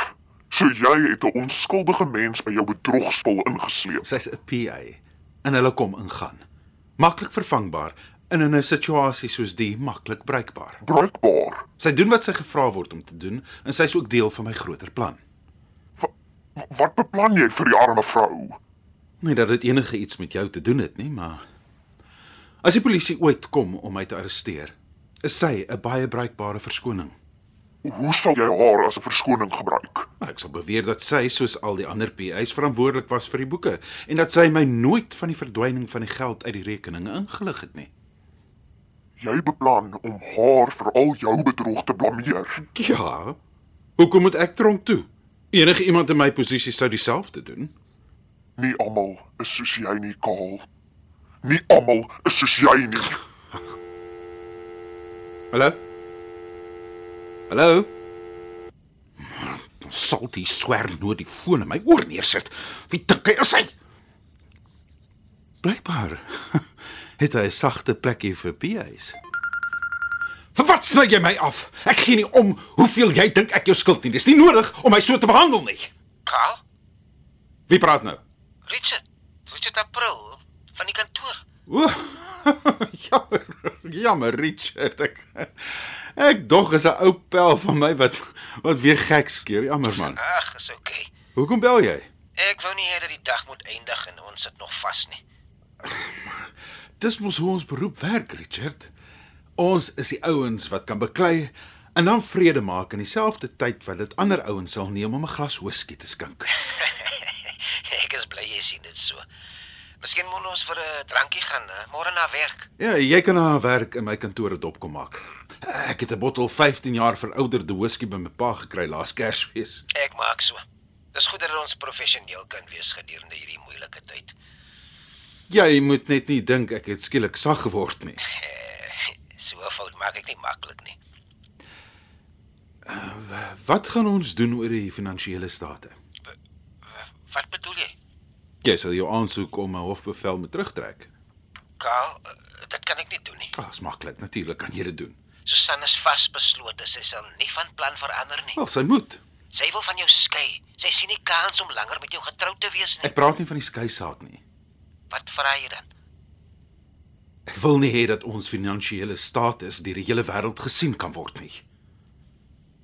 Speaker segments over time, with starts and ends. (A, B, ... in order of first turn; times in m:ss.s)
0:00.5-0:04.1 A
0:04.0-0:06.4 B
0:07.0-0:10.8 B
0:10.8-0:11.7 A
0:11.8-0:15.2 B
0:16.0-0:18.6 A
0:19.2-0:21.4 B
0:22.6-0:27.2 B
0:27.8-0:30.1 A
0:30.2-0:37.9 B
0:39.2-0:42.6 A
0:42.7-0:43.4 B
0:44.0-0:47.7 B
0:48.6-0:50.7 A
0:51.4-0:53.2 A
0:55.5-0:55.8 B
0:57.5-0:57.9 B
0:59.2-1:03.7 B
1:05.6-1:06.7 B
1:07.2-1:09.2 B
1:10.6-1:15.9 B
1:16.3-1:16.6 C
1:17.7-1:18.2 B
1:18.7-1:21.4 C
1:21.7-1:30.2 B
1:30.1-1:31.1 C
1:31.4-1:32.1 B
1:32.4-1:35.2 C
1:35.8-1:38.9 B
1:39.6-1:46.7 B
1:46.7-1:49.2 C
1:50.0-1:52.7 C
1:52.8-1:59.8 B
1:59.9-2:00.6 C
2:01.1-2:04.4 C
2:05.5-2:08.2 B
2:08.3-2:11.0 C
2:12.9-2:16.0 B
2:17.3-2:17.9 C
2:18.6-2:21.1 B
2:21.8-2:23.5 C
2:23.6-2:25.2 B
2:25.4-2:28.6 C
2:28.6-2:29.2 B
2:29.5-2:33.1 C
2:33.0-2:34.4 B
2:35.1-2:35.9 C
2:37.5-2:41.6 B